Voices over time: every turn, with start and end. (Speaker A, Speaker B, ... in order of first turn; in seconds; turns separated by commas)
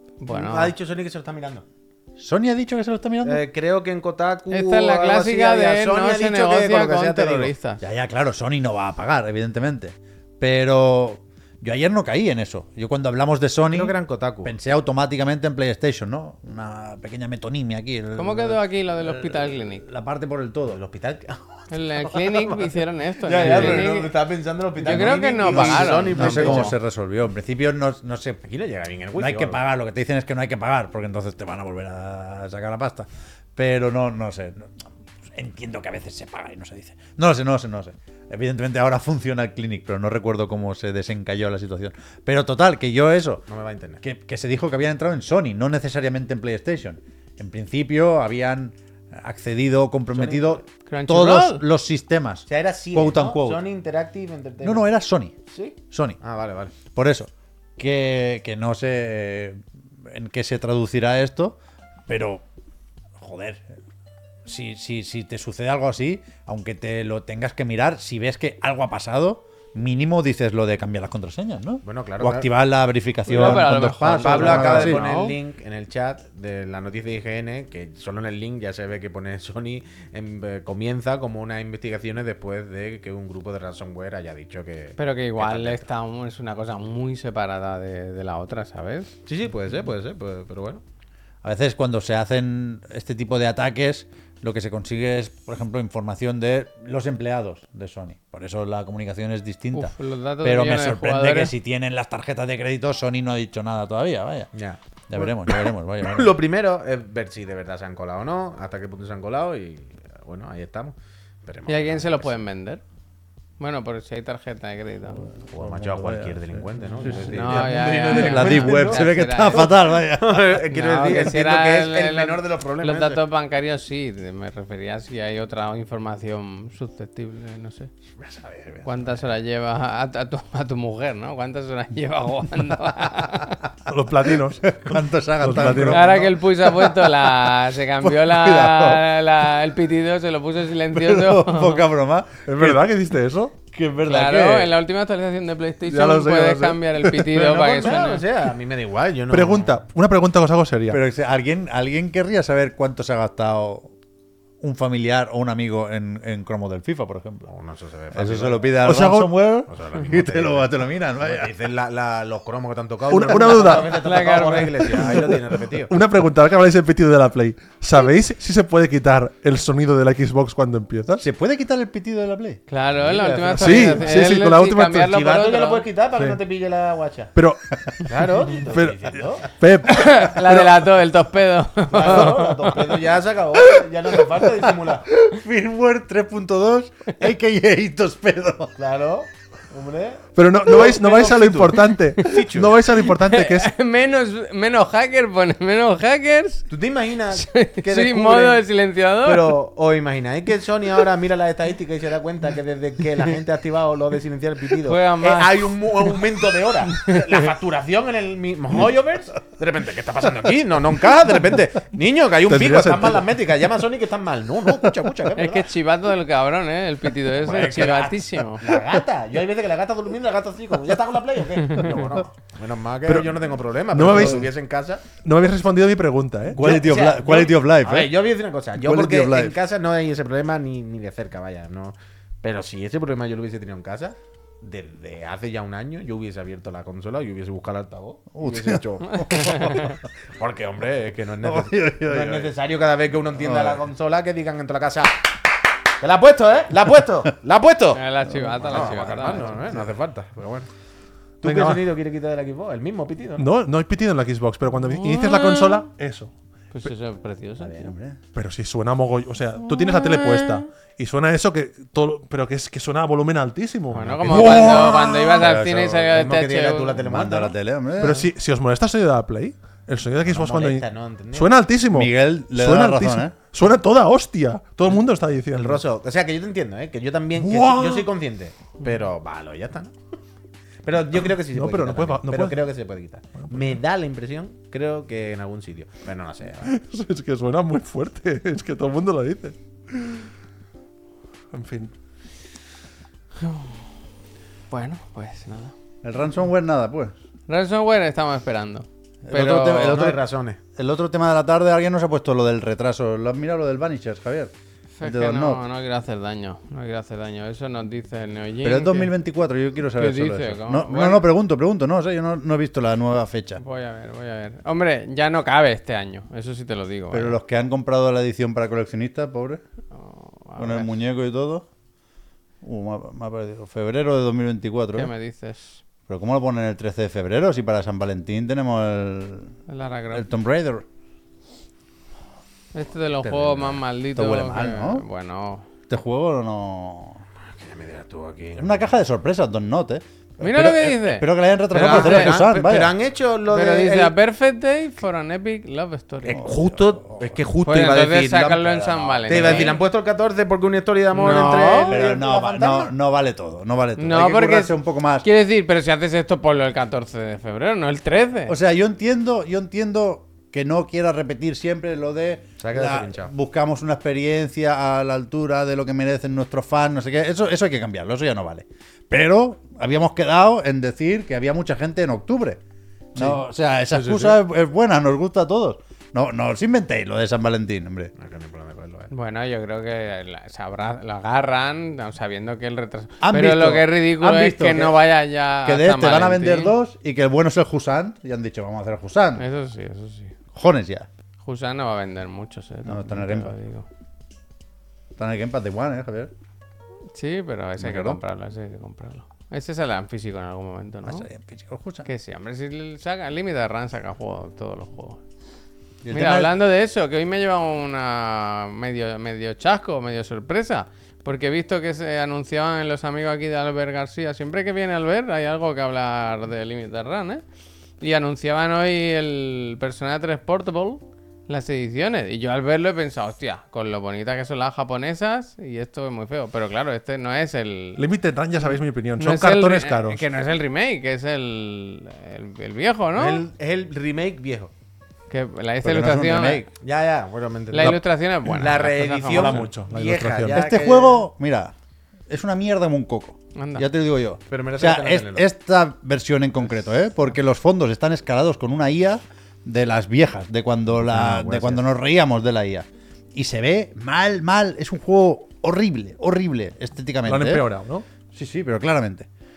Speaker A: 0.2-0.7, Speaker B: 0.3-1.6, Speaker C: 2.2-3.4, Speaker B: 3.2-7.5, Speaker A: 4.5-7.8, Speaker C: 7.8-20.8, Speaker B: 13.7-14.5, Speaker A: 18.1-19.8, Speaker B: 20.7-26.7, Speaker A: 21.7-24.1, Speaker C: 23.3-23.9, Speaker C: 24.8-28.4, Speaker A: 24.8-26.7, Speaker B: 28.4-29.6, Speaker C: 29.1-43.4, Speaker B: 43.5-44.0, Speaker C: 44.0-53.6, Speaker B: 50.1-50.6, Speaker A: 50.9-51.6, Speaker B: 52.5-54.9, Speaker C: 54.6-55.4, Speaker B: 55.5-56.7, Speaker C: 55.9-56.2, Speaker C: 56.9-62.4, Speaker C: 63.2-63.6, Speaker C: 64.4-75.0, Speaker B: 71.8-72.5, Speaker A: 73.3-75.4, Speaker B: 73.3-85.8, Speaker A: 85.0-89.1, Speaker B: 89.2-90.8, Speaker C: 91.4-104.5, Speaker A: 99.7-101.5, Speaker B: 104.5-112.3, Speaker C: 105.1-106.3, Speaker A: 111.7-112.8, Speaker A: 113.6-115.2, Speaker C: 115.4-120.6, Speaker B: 115.5-123.2, Speaker A: 117.0-119.7, Speaker A: 120.7-127.9, Speaker B: 128.2-129.2, Speaker A: 128.8-133.6, Speaker D: 133.8-134.8, Speaker C: 134.6-139.0, Speaker D: 135.4-136.1, Speaker A: 135.8-141.8, Speaker C: 140.9-142.9, Speaker D: 142.4-143.5, Speaker C: 143.7-144.7, Speaker A: 144.1-148.2, Speaker C: 145.8-147.1, Speaker B: 147.3-149.8, Speaker D: 149.3-151.0, Speaker C: 150.9-153.9, Speaker C: 154.6-157.5, Speaker B: 157.5-158.8, Speaker C: 158.1-161.5, Speaker D: 158.8-159.3, Speaker B: 159.7-160.7, Speaker B: 161.2-165.9, Speaker D: 163.1-164.1, Speaker A: 163.6-165.1, Speaker D: 164.8-171.2, Speaker C: 171.2-172.6, Speaker A: 172.7-175.8, Speaker B: 172.9-174.2, Speaker D: 173.6-175.1, Speaker B: 175.0-177.3, Speaker D: 177.3-180.8, Speaker B: 178.1-179.4, Speaker A: 179.8-182.9, Speaker B: 181.9-185.1, Speaker C: 184.4-188.8, Speaker B: 188.8-192.8, Speaker D: 190.3-193.7, Speaker A: 193.0-196.7, Speaker B: 196.7-198.6, Speaker A: 197.3-199.6, Speaker B: 199.2-215.7, Speaker A: 204.8-205.7, Speaker A: 206.9-207.2, Speaker D: 212.4-213.3, Speaker A: 215.3-218.6, Speaker B: 217.4-225.0, Speaker C: 217.5-218.2, Speaker D: 223.1-224.5, Speaker D: 225.2-226.9, Speaker C: 226.5-228.1, Speaker B: 226.5-245.3, Speaker C: 228.7-229.6, Speaker C: 238.3-239.9, Speaker A: 239.1-240.0, Speaker C: 241.4-242.5, Speaker C: 243.3-243.8, Speaker B: 246.0-250.7, Speaker A: 247.9-249.6, Speaker C: 248.7-249.9, Speaker B: 251.4-253.5, Speaker D: 251.4-251.8, Speaker D: 253.4-256.3, Speaker A: 254.8-255.9, Speaker A: 256.7-257.9, Speaker C: 257.6-258.2, Speaker D: 258.3-265.4, Speaker A: 259.6-260.6, Speaker A: 263.9-267.0, Speaker B: 264.0-265.0, Speaker C: 265.4-266.1, Speaker B: 266.0-267.5, Speaker C: 267.0-268.3, Speaker D: 268.0-275.8, Speaker B: 270.2-271.5, Speaker C: 271.9-273.3, Speaker B: 275.5-279.9, Speaker D: 277.4-278.1, Speaker B: 280.8-286.7, Speaker D: 281.3-282.6, Speaker D: 283.4-283.8, Speaker D: 286.6-290.3, Speaker D: 291.5-291.9, Speaker A: 293.4-293.8, Speaker A: 294.7-295.7, Speaker C: 296.0-297.1, Speaker A: 297.5-300.0, Speaker C: 299.2-300.2, Speaker B: 299.7-300.6, Speaker C: 300.8-305.6, Speaker A: 305.0-309.1, Speaker C: 308.6-313.6, Speaker A: 309.9-311.2, Speaker A: 313.6-317.4, Speaker C: 317.1-319.6, Speaker A: 319.9-320.9, Speaker C: 320.6-321.7, Speaker C: 322.6-325.1, Speaker A: 324.9-325.8, Speaker C: 326.1-329.5, Speaker A: 329.7-330.3, Speaker C: 330.1-330.9, Speaker A: 332.7-335.7, Speaker B: 333.2-333.6, Speaker C: 333.4-335.0, Speaker C: 335.9-337.2, Speaker B: 337.5-338.8, Speaker C: 338.6-342.9, Speaker A: 340.4-342.4, Speaker B: 341.7-344.1, Speaker A: 343.5-346.4, Speaker B: 346.2-348.6, Speaker C: 346.3-347.4, Speaker A: 347.6-349.8, Speaker C: 348.4-349.8, Speaker B: 349.2-352.9, Speaker A: 351.1-352.0, Speaker C: 351.9-355.2, Speaker A: 354.0-358.5, Speaker C: 358.5-372.6, Speaker B: 362.6-363.3, Speaker C: 373.1-378.1, Speaker D: 373.9-374.3, Speaker B: 378.1-379.1, Speaker A: 379.1-386.7, Speaker C: 383.2-385.0, Speaker C: 385.6-389.4, Speaker A: 389.4-390.3, Speaker C: 390.5-391.1, Speaker A: 391.4-393.9, Speaker C: 392.9-393.5, Speaker C: 395.2-396.3, Speaker A: 397.1-401.3, Speaker C: 397.8-398.2, Speaker C: 401.1-402.1, Speaker A: 402.1-405.2, Speaker C: 406.0-406.5, Speaker A: 406.1-417.4, Speaker A: 418.0-428.0, Speaker D: 428.0-430.2, Speaker A: 428.6-433.4, Speaker B: 433.1-434.7, Speaker A: 435.3-436.6, Speaker C: 435.8-436.7, Speaker B: 436.8-441.2, Speaker A: 437.7-439.6, Speaker D: 439.3-440.6, Speaker C: 440.4-441.7, Speaker C: 442.3-457.6, Speaker A: 443.5-443.9, Speaker B: 444.5-445.4, Speaker D: 451.1-451.6, Speaker D: 457.2-458.1, Speaker C: 458.3-459.3